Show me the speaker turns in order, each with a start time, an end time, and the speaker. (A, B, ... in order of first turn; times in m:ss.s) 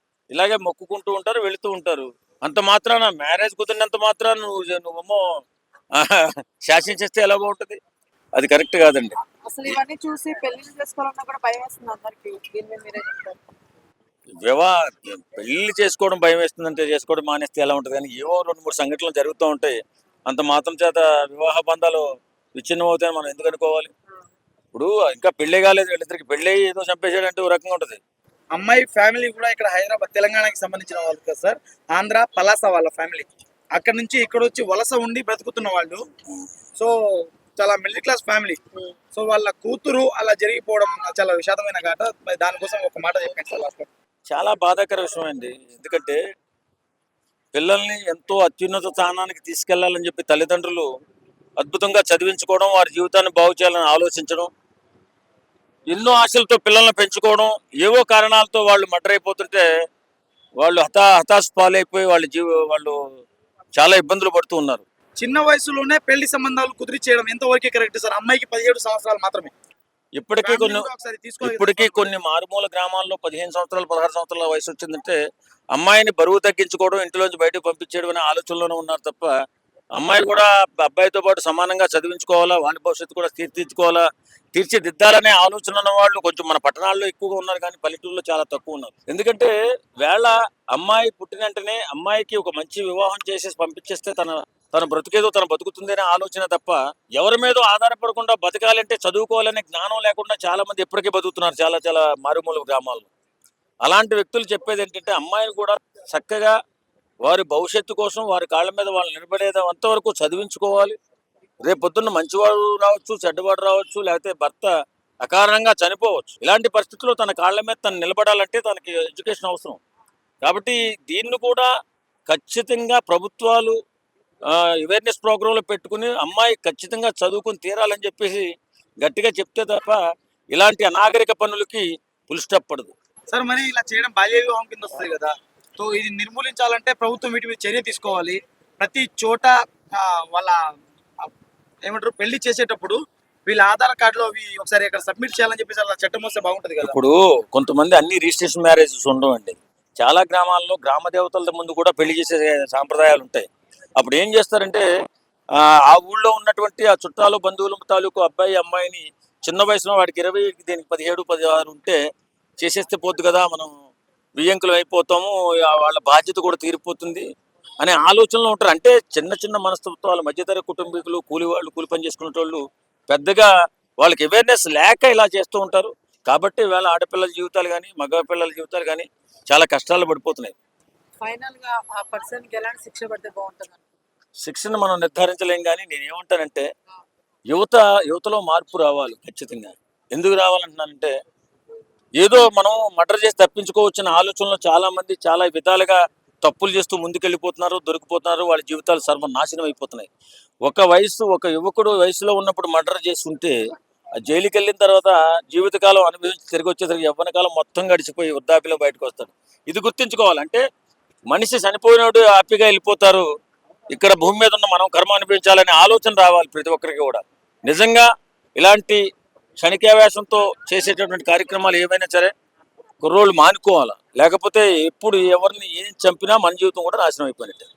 0:00.3-0:05.2 A
0:06.0-0:07.8 A
0:08.4-0:09.2 A
0:09.4-0:13.4 B
0:14.4-0:19.8 A
0:20.3-0:22.0 A
0:22.6-0:23.9 A
0:24.7-0:28.0 A
0:28.5-0:36.0 C
0:36.8-0:38.6 C
0:39.1-0:43.9 C
0:44.3-0:46.2 A
0:47.5-0:50.8 A
0:51.6-0:54.5 A
0:55.9-0:59.6 A
1:00.6-1:03.0 A
1:03.8-1:04.8 A
1:05.2-1:09.5 C
1:10.2-1:10.8 A
1:10.4-1:12.1 C
1:11.4-1:15.2 A
1:15.7-1:19.3 A
1:20.0-1:24.0 A
1:24.5-1:29.5 A
1:30.0-1:43.1 A
1:43.8-1:46.5 A
1:47.2-1:50.9 A
1:51.6-1:54.7 A
1:55.2-1:59.8 A
2:00.4-2:01.7 A
2:02.3-2:03.8 A
2:04.5-2:08.4 A
2:09.0-2:10.0 A
2:10.5-2:12.9 A
2:13.3-2:20.6 C
2:21.8-2:27.0 C
2:26.8-2:33.4 A
2:34.0-2:34.8 A
2:35.6-2:42.0 A
2:42.6-2:43.7 A
2:44.4-2:47.2 A
2:47.8-3:00.5 A
3:01.2-3:03.8 B
3:04.4-3:06.6 A
3:07.5-3:11.1 A
3:12.2-3:20.1 A
3:20.6-3:23.5 A
3:24.2-3:30.6 A
3:31.3-3:33.2 A
3:33.9-3:39.0 A
3:39.6-3:42.3 A
3:43.0-3:47.7 A